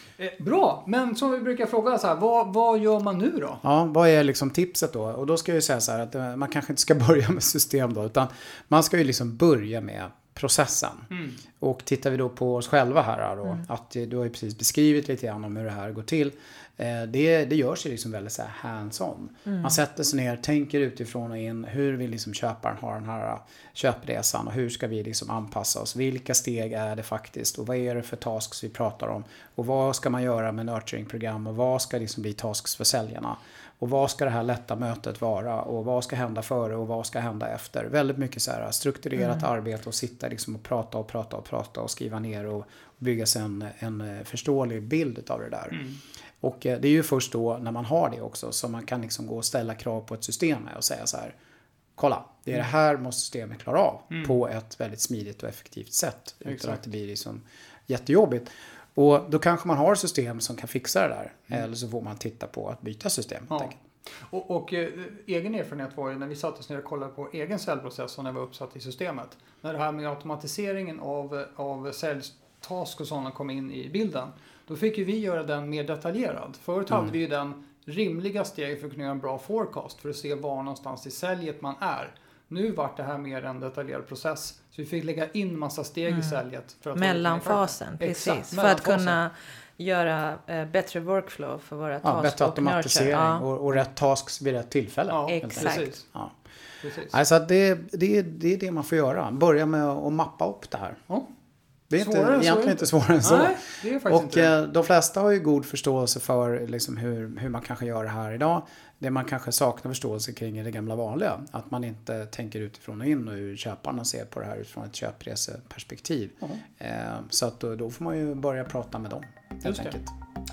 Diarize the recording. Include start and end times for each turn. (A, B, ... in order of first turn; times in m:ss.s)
0:00.2-0:03.6 A
0:03.6-0:45.8 B
0:11.1-0:11.4 A
0:45.7-0:46.0 A
0:46.4-0:51.4 B
0:52.0-1:03.8 B
0:56.5-0:56.8 A
1:03.5-1:29.2 A
1:26.1-1:26.4 C
1:27.0-1:33.4 C
1:32.0-1:36.3 B
1:35.1-1:36.1 A
1:35.3-1:35.9 C
1:36.8-1:37.2 A
1:37.1-1:41.0 B
1:41.9-2:00.1 B
1:42.0-1:44.5 A
1:59.6-2:00.0 A